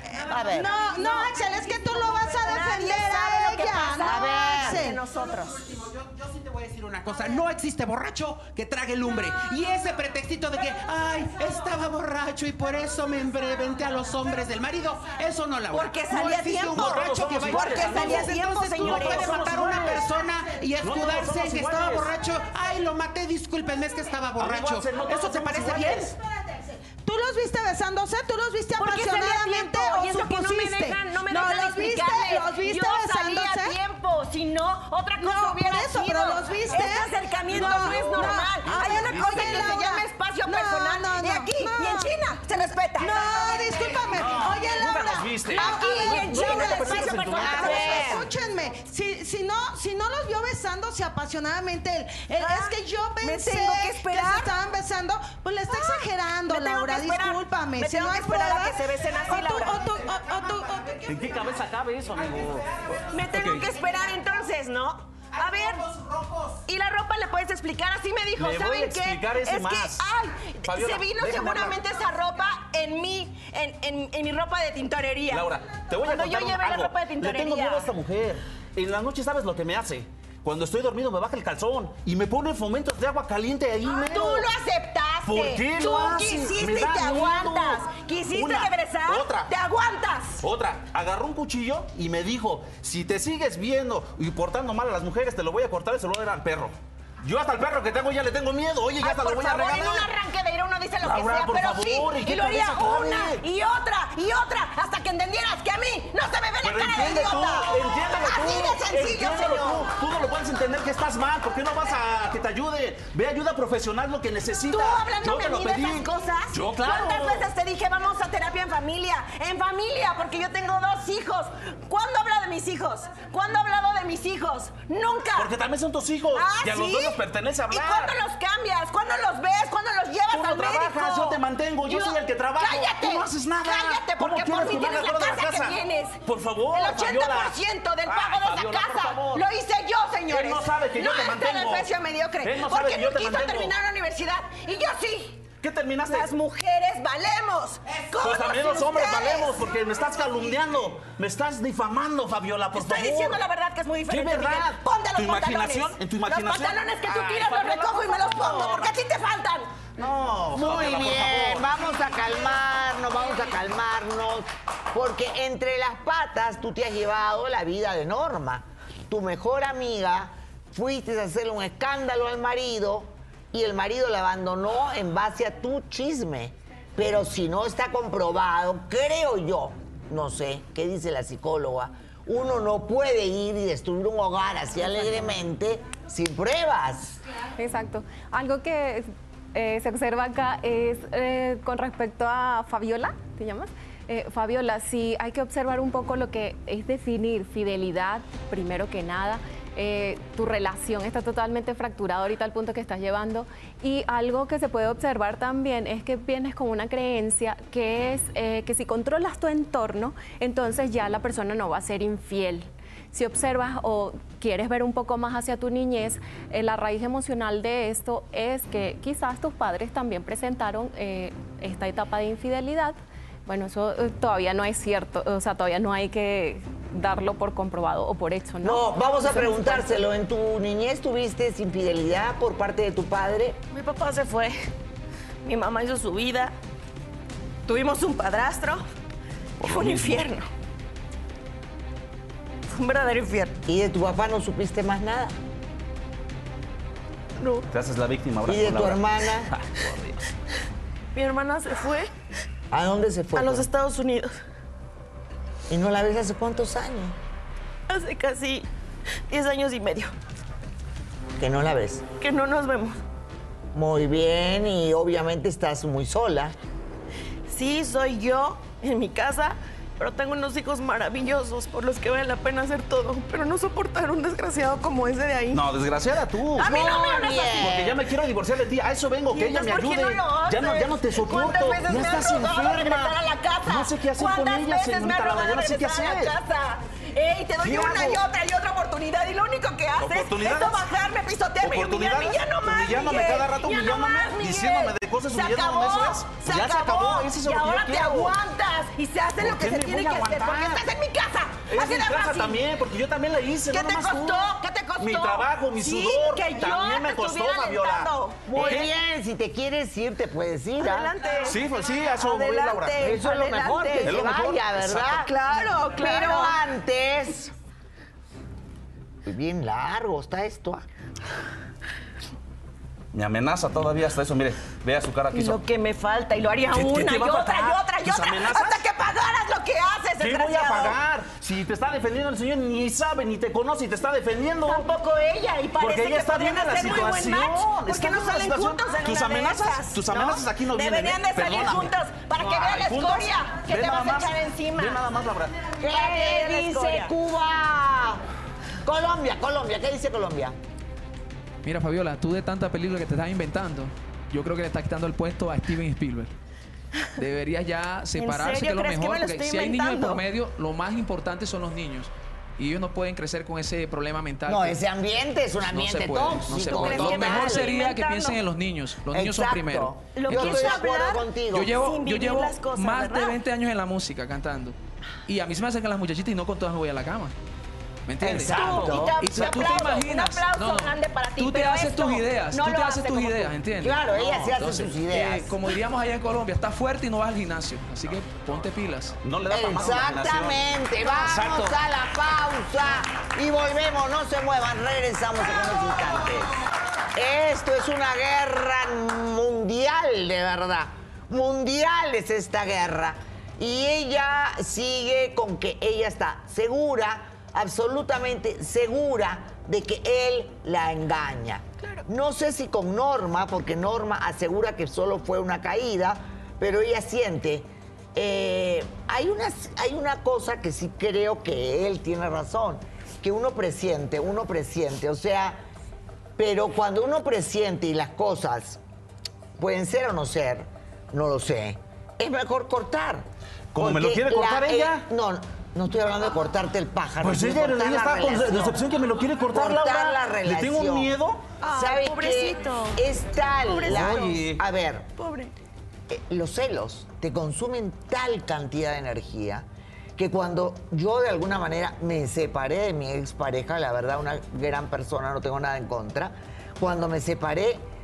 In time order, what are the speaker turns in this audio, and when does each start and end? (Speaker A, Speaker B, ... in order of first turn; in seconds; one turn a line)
Speaker A: 0.2-5.0
Speaker B: 0.3-0.7
Speaker C: 0.6-5.7
Speaker B: 4.0-4.8
Speaker D: 5.2-26.1
Speaker C: 15.7-19.7
Speaker E: 16.7-20.1
Speaker E: 20.8-22.1
Speaker E: 24.4-26.1
Speaker A: 27.0-33.8
Speaker C: 28.8-43.5
Speaker A: 35.2-42.1
Speaker E: 37.5-39.8
Speaker A: 43.0-61.0
Speaker E: 44.1-48.3
Speaker C: 45.5-48.3
Speaker B: 47.4-48.2
Speaker C: 52.4-54.5
Speaker C: 55.7-60.1
Speaker E: 61.0-63.7
Speaker D: 62.4-63.4
Speaker C: 63.1-65.9
Speaker D: 65.4-66.6
Speaker C: 66.7-75.5
Speaker E: 68.4-70.0
Speaker E: 70.7-71.8
Speaker E: 75.3-84.5
Speaker C: 76.0-77.9
Speaker C: 83.8-90.4
Speaker E: 85.3-89.5
Speaker E: 90.4-100.1
Speaker C: 99.0-109.9
Speaker E: 101.0-103.4
Speaker E: 106.6-117.5
Speaker C: 114.7-125.5
Speaker E: 125.4-128.2
Speaker C: 126.3-136.2
Speaker E: 130.3-139.5
Speaker C: 136.7-145.4
Speaker E: 140.3-141.9
Speaker E: 142.4-143.7
Speaker E: 145.6-146.3
Speaker C: 146.1-149.7
Speaker E: 148.2-153.4
Speaker C: 152.7-159.7
Speaker E: 154.1-158.9
Speaker E: 160.0-161.7
Speaker B: 160.6-187.2
Speaker F: 187.6-229.9
Speaker B: 228.6-233.6
Speaker C: 233.7-234.6
Speaker C: 235.4-236.6
Speaker C: 237.7-238.8
Speaker C: 239.6-240.5
Speaker E: 239.6-240.3
Speaker C: 242.7-243.6
Speaker B: 243.7-245.4
Speaker C: 247.4-247.7
Speaker E: 247.7-250.2
Speaker B: 248.5-249.5
Speaker C: 251.1-252.1
Speaker B: 252.7-253.7
Speaker C: 253.3-254.3
Speaker B: 255.7-257.2
Speaker C: 257.9-258.7
Speaker C: 259.3-260.1
Speaker B: 261.4-262.0
Speaker C: 262.2-263.0
Speaker B: 263.7-266.6
Speaker C: 267.5-275.6
Speaker E: 275.5-276.7
Speaker C: 276.6-277.7
Speaker B: 276.6-278.0
Speaker E: 277.5-283.1
Speaker C: 279.3-302.6
Speaker E: 283.7-286.4
Speaker E: 287.6-288.2
Speaker E: 290.0-290.9
Speaker E: 291.6-298.4
Speaker E: 299.4-300.8
Speaker E: 301.7-308.9
Speaker C: 303.7-308.9
Speaker B: 308.5-311.1
Speaker C: 310.8-314.3
Speaker E: 311.4-313.0
Speaker B: 313.0-315.3
Speaker E: 314.0-315.1
Speaker C: 314.9-316.6
Speaker B: 316.0-317.5
Speaker B: 319.3-320.8
Speaker E: 323.1-325.6
Speaker C: 325.3-331.0
Speaker E: 326.7-328.8
Speaker E: 330.2-334.9
Speaker C: 334.6-345.0
Speaker E: 335.8-345.6
Speaker B: 345.8-348.2
Speaker C: 345.8-347.1
Speaker B: 348.8-350.6
Speaker G: 351.6-356.3
Speaker G: 357.2-364.8
Speaker C: 358.2-360.2
Speaker B: 364.5-367.7
Speaker G: 365.6-370.8
Speaker C: 366.5-368.4
Speaker B: 369.1-371.8
Speaker C: 370.1-373.4
Speaker G: 371.5-374.8
Speaker G: 375.3-377.3
Speaker G: 378.1-389.2
Speaker B: 378.2-379.2
Speaker C: 378.3-383.6
Speaker E: 378.6-379.9
Speaker B: 383.8-385.6
Speaker E: 389.2-391.8
Speaker B: 389.5-396.5
Speaker B: 397.1-425.6
Speaker B: 426.4-428.8
Speaker B: 429.6-433.3
Speaker E: 433.7-435.1
Speaker B: 433.8-438.8
Speaker E: 437.2-441.4
Speaker B: 439.5-441.1
Speaker C: 441.6-443.0
Speaker B: 441.7-445.1
Speaker C: 443.7-444.4
Speaker E: 443.9-444.6
Speaker C: 445.2-445.5
Speaker B: 446.1-449.6
Speaker B: 450.2-457.8